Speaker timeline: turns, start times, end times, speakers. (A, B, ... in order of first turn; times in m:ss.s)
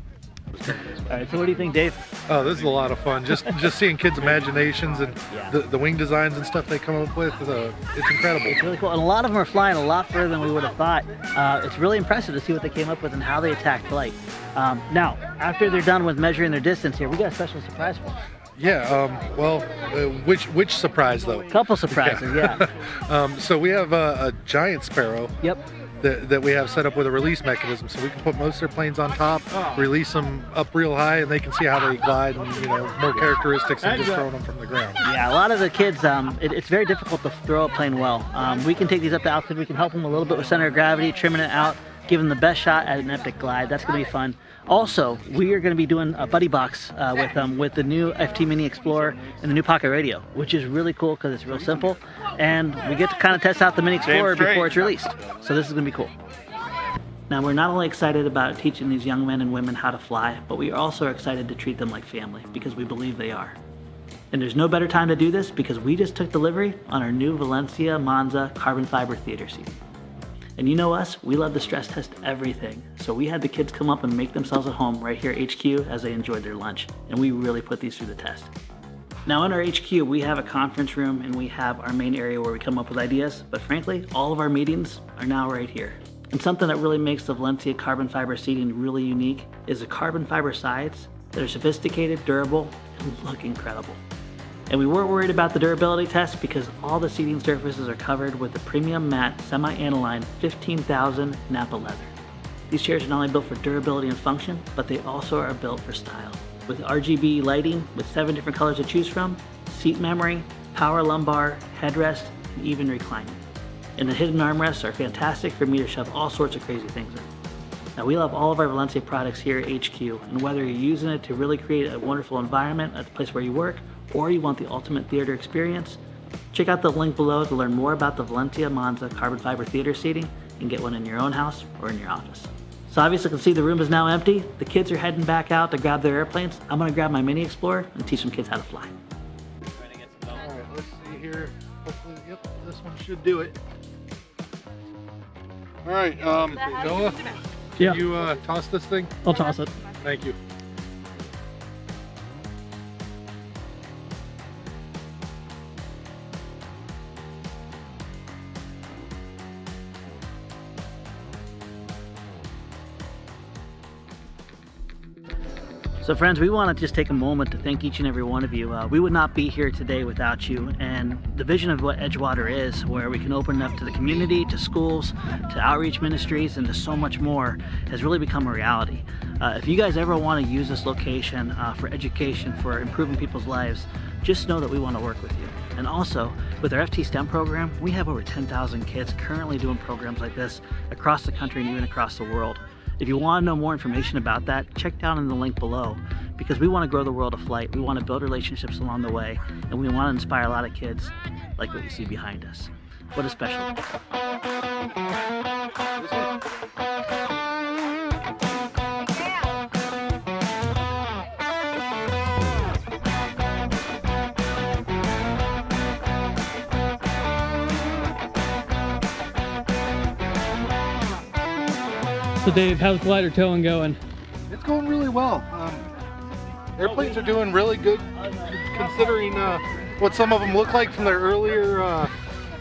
0:00.6-0:02.0 A
0:02.3-0:08.6 B
0:05.2-0:05.6 A
0:08.5-0:18.2 A
0:18.6-0:25.4 B
0:21.5-0:22.7 A
0:26.0-0:35.0 B
0:33.8-0:34.3 A
0:35.0-0:56.1 A
0:54.1-0:54.8 B
0:57.3-1:03.6 A
1:04.3-1:09.8 A
1:10.6-1:18.5 A
1:19.3-1:34.0 A
1:34.7-1:42.1 A
1:42.7-1:53.4 A
1:54.0-1:57.3 A
1:58.0-2:06.0 A
2:06.5-2:19.0 A
2:20.3-2:23.6 B
2:25.8-2:29.3 B
2:29.3-2:29.7 C
2:30.0-2:30.4 B
2:46.0-3:23.9 A
3:26.0-3:26.3 B
3:42.4-3:44.0 C
3:44.5-3:45.8 B
3:46.8-3:52.1 B